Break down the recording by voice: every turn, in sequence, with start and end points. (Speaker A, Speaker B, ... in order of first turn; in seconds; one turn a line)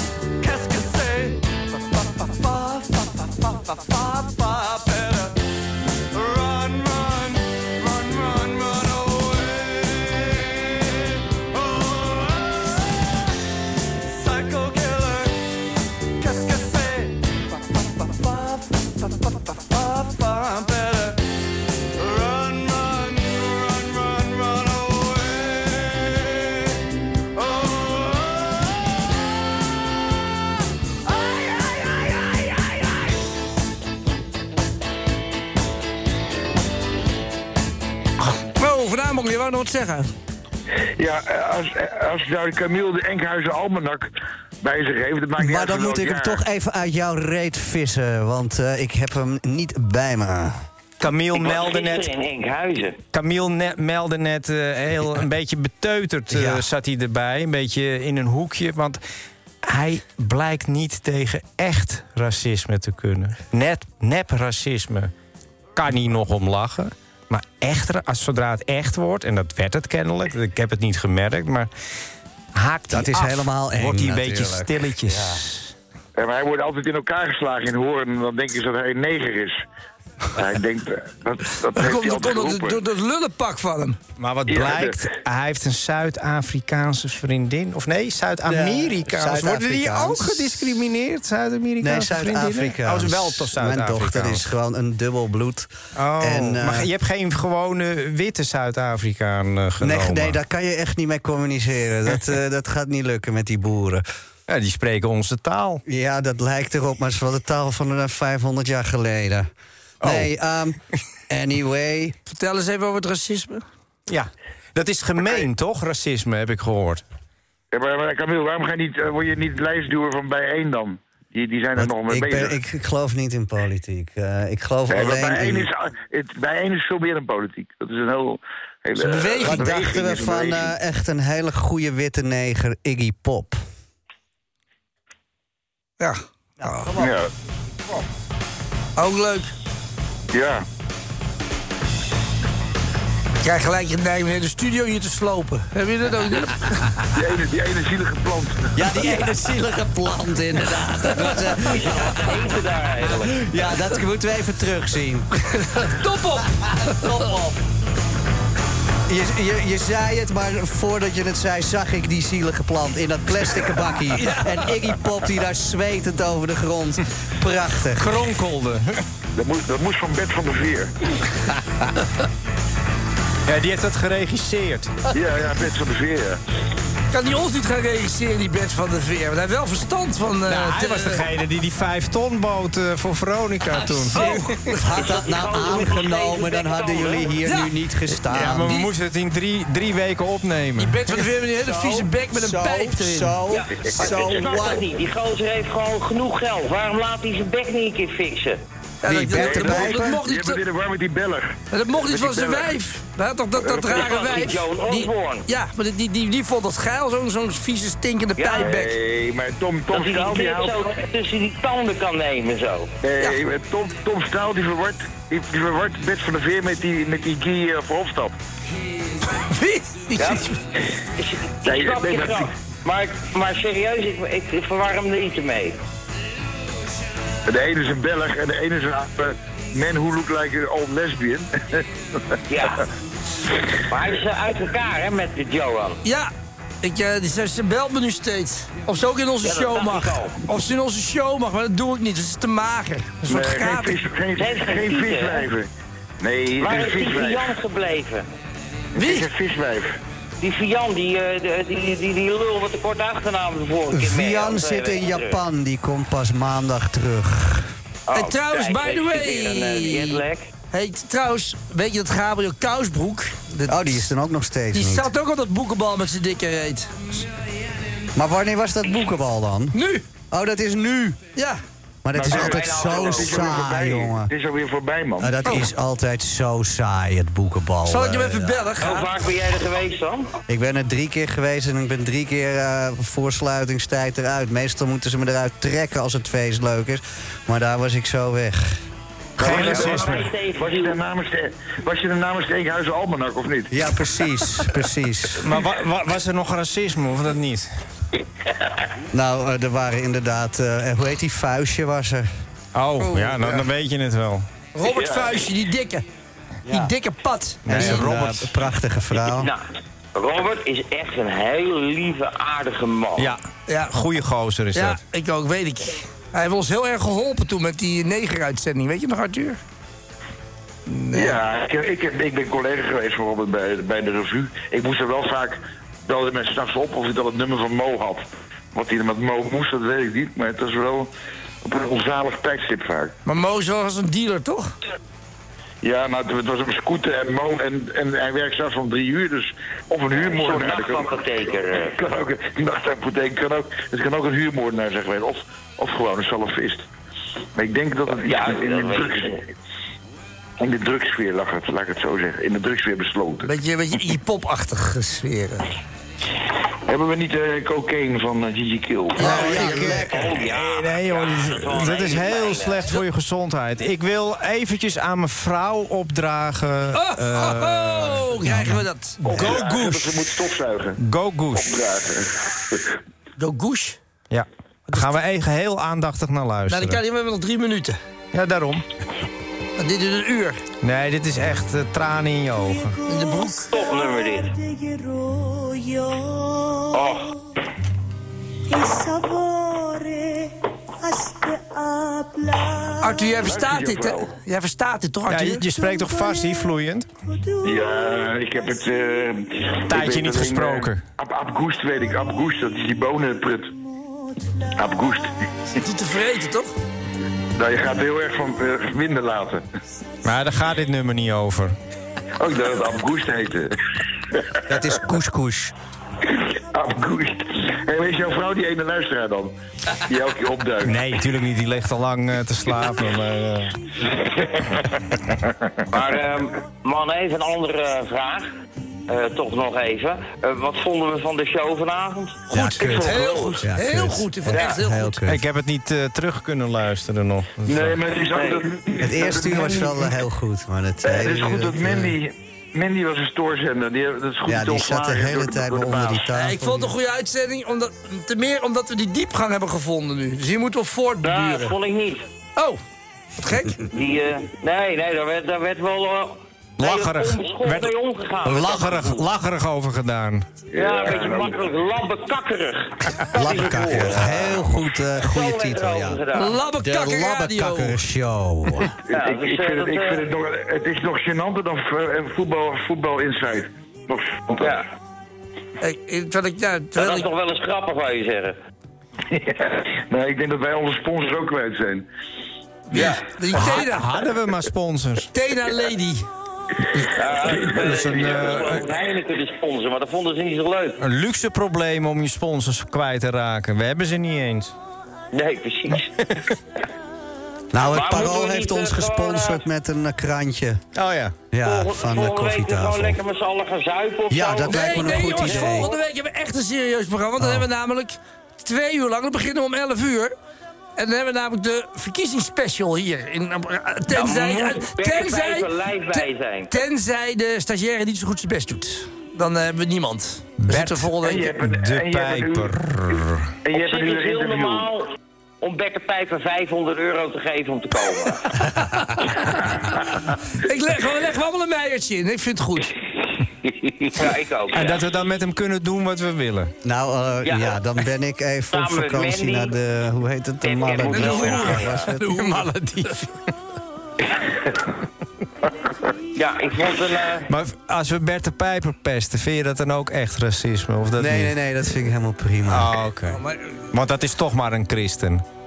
Speaker A: 0.4-5.4
Speaker A: 6.1-13.3
Speaker A: 14.1-15.4
Speaker A: 16.2-17.2
Speaker A: 17.8-21.2
Speaker A: 22.0-26.8
Speaker A: 27.4-29.1
Speaker A: 31.1-33.0
Speaker B: 38.3-40.1
Speaker C: 41.0-44.1
Speaker C: 44.6-46.4
Speaker D: 45.4-50.6
Speaker E: 51.0-52.1
Speaker F: 51.3-53.0
Speaker E: 53.1-59.0
Speaker D: 56.3-56.7
Speaker E: 59.6-65.1
Speaker E: 65.8-71.7
Speaker E: 72.5-75.7
Speaker D: 72.9-75.5
Speaker C: 76.2-79.6
Speaker C: 80.3-82.8
Speaker B: 81.8-84.0
Speaker E: 84.2-94.5
Speaker C: 84.5-85.0
Speaker D: 88.5-90.5
Speaker D: 91.8-96.9
Speaker E: 96.0-100.4
Speaker D: 99.8-104.0
Speaker E: 104.5-105.8
Speaker D: 105.9-109.5
Speaker D: 110.0-112.2
Speaker E: 110.0-110.3
Speaker B: 112.3-113.6
Speaker E: 114.1-117.0
Speaker C: 117.7-122.6
Speaker D: 121.8-125.7
Speaker C: 124.9-130.7
Speaker B: 129.0-129.7
Speaker D: 129.1-133.6
Speaker B: 136.0-136.9
Speaker D: 136.6-137.2
Speaker C: 137.0-137.3
Speaker B: 139.0-139.5
Speaker C: 140.3-140.7
Speaker B: 143.4-146.7
Speaker C: 147.1-148.7
Speaker D: 148.8-152.5
Speaker F: 151.7-153.4
Speaker D: 153.1-155.3
Speaker B: 155.5-157.3
Speaker D: 156.8-157.6
Speaker D: 159.1-168.1
Speaker B: 164.2-164.7
Speaker E: 167.9-169.0
Speaker C: 169.4-170.9
Speaker E: 173.5-174.9
Speaker C: 175.1-176.4
Speaker B: 177.1-181.2
Speaker E: 180.5-184.7
Speaker B: 184.0-184.8
Speaker D: 184.8-188.8
Speaker F: 184.9-187.3
Speaker B: 187.4-187.7
Speaker E: 188.3-191.2
Speaker B: 190.8-193.4
Speaker D: 191.6-194.9
Speaker F: 193.5-198.6
Speaker C: 193.9-194.8
Speaker B: 199.0-200.6
Speaker D: 199.0-200.2
Speaker C: 199.3-202.8
Speaker B: 201.7-208.9
Speaker C: 203.6-204.6
Speaker F: 203.7-205.5
Speaker F: 208.4-208.8
Speaker C: 208.6-210.9
Speaker F: 209.9-213.0
Speaker C: 213.0-218.3
Speaker B: 219.3-220.6
Speaker F: 220.2-220.5
Speaker F: 221.2-225.8
Speaker C: 221.6-222.5
Speaker C: 227.5-232.4
Speaker F: 232.5-232.9
Speaker F: 233.9-236.0
Speaker B: 236.0-236.3
Speaker B: 236.8-244.0
Speaker F: 239.4-240.4
Speaker C: 243.3-245.7
Speaker F: 244.4-245.5
Speaker C: 246.2-247.6
Speaker F: 246.6-248.3
Speaker B: 249.0-249.3
Speaker C: 249.0-250.0
Speaker F: 250.4-255.4
Speaker D: 253.9-257.7
Speaker F: 258.1-260.5
Speaker B: 258.1-264.1
Speaker D: 263.7-265.1
Speaker B: 264.7-267.3
Speaker D: 268.1-269.8
Speaker B: 269.8-270.0
Speaker D: 270.3-271.2
Speaker B: 271.4-271.6
Speaker D: 272.0-274.3
Speaker C: 272.1-275.3
Speaker F: 272.2-273.6
Speaker D: 275.2-278.8
Speaker B: 277.9-279.2
Speaker F: 278.8-280.3
Speaker D: 280.5-288.8
Speaker E: 289.4-290.2
Speaker C: 289.4-293.8
Speaker D: 289.5-290.3
Speaker F: 289.5-291.0
Speaker D: 293.7-295.5
Speaker E: 295.4-297.7
Speaker D: 299.1-302.3
Speaker E: 302.7-304.5
Speaker B: 303.0-303.6
Speaker B: 304.8-306.0
Speaker C: 304.8-305.4
Speaker D: 306.7-306.9
Speaker B: 306.7-308.0
Speaker D: 307.7-309.5
Speaker E: 307.7-308.6
Speaker F: 309.3-309.6
Speaker F: 310.1-313.3
Speaker E: 313.2-315.0
Speaker B: 313.7-313.9
Speaker B: 314.8-319.6
Speaker B: 320.9-321.4
Speaker C: 321.1-331.1
Speaker C: 331.6-333.2
Speaker B: 333.3-334.7
Speaker C: 335.8-346.9
Speaker F: 340.1-342.0
Speaker C: 347.6-349.5
Speaker F: 348.1-349.4
Speaker C: 350.6-353.5
Speaker B: 353.4-355.7
Speaker C: 356.9-359.9
Speaker B: 359.1-360.1
Speaker D: 359.2-360.4
Speaker E: 359.9-369.6
Speaker F: 360.1-362.9
Speaker B: 366.9-370.2
Speaker C: 369.2-371.0
Speaker E: 371.0-371.8
Speaker C: 371.5-372.9
Speaker B: 373.4-374.0
Speaker E: 374.3-377.0
Speaker B: 376.7-378.0
Speaker E: 378.3-378.9
Speaker B: 379.8-380.6
Speaker E: 380.8-383.0
Speaker B: 383.0-383.8
Speaker F: 383.7-384.6
Speaker F: 386.9-387.4
Speaker B: 393.0-395.7
Speaker C: 393.4-394.3
Speaker E: 395.3-397.1
Speaker C: 397.6-403.8
Speaker E: 399.9-401.0
Speaker C: 404.7-405.3
Speaker B: 405.8-406.7
Speaker C: 407.6-409.6
Speaker E: 410.2-411.8
Speaker C: 412.4-413.8
Speaker D: 414.7-415.7
Speaker C: 416.3-421.0
Speaker E: 420.8-423.7
Speaker C: 424.2-424.7
Speaker F: 425.9-428.5
Speaker F: 429.1-432.6
Speaker D: 432.5-435.4
Speaker B: 432.5-435.2
Speaker C: 432.8-433.6
Speaker C: 434.5-434.8
Speaker E: 435.3-438.0
Speaker C: 437.7-440.2
Speaker F: 438.3-438.7
Speaker D: 439.0-442.2
Speaker C: 441.1-446.3
Speaker D: 444.5-447.0
Speaker B: 446.3-451.8
Speaker F: 451.2-452.2
Speaker B: 453.4-453.9
Speaker F: 453.9-459.1
Speaker E: 456.8-457.9
Speaker E: 458.4-460.4
Speaker C: 460.7-461.6
Speaker F: 460.7-464.6
Speaker D: 463.3-466.2
Speaker F: 465.1-466.6
Speaker B: 466.3-468.0
Speaker D: 466.8-468.9
Speaker C: 469.1-474.8
Speaker F: 469.1-470.3
Speaker F: 474.6-474.9
Speaker B: 475.8-477.3
Speaker F: 477.0-478.6
Speaker C: 479.3-482.1
Speaker B: 482.9-484.1
Speaker C: 482.9-483.2
Speaker E: 483.5-485.3
Speaker B: 485.3-486.3
Speaker F: 487.1-491.0
Speaker C: 487.4-487.7
Speaker E: 487.7-488.9
Speaker E: 491.0-494.7
Speaker F: 495.3-496.1
Speaker E: 496.2-496.5
Speaker D: 497.7-500.9
Speaker F: 497.9-499.6
Speaker E: 500.9-501.5
Speaker D: 501.5-503.2
Speaker F: 501.6-506.0
Speaker D: 504.3-505.9
Speaker B: 504.6-510.3
Speaker D: 507.4-507.6
Speaker B: 511.0-521.5
Speaker F: 514.1-516.8
Speaker E: 520.6-523.5
Speaker C: 521.2-524.9
Speaker F: 523.7-528.5
Speaker B: 528.7-529.7
Speaker B: 530.6-533.0
Speaker F: 533.6-535.0
Speaker E: 534.7-536.7
Speaker D: 536.8-542.1
Speaker F: 537.5-537.8
Speaker F: 538.7-539.7
Speaker F: 540.6-542.1
Speaker B: 541.0-543.3
Speaker F: 546.4-547.5
Speaker E: 547.5-551.5
Speaker D: 551.2-552.9
Speaker E: 552.7-555.4
Speaker B: 553.3-553.8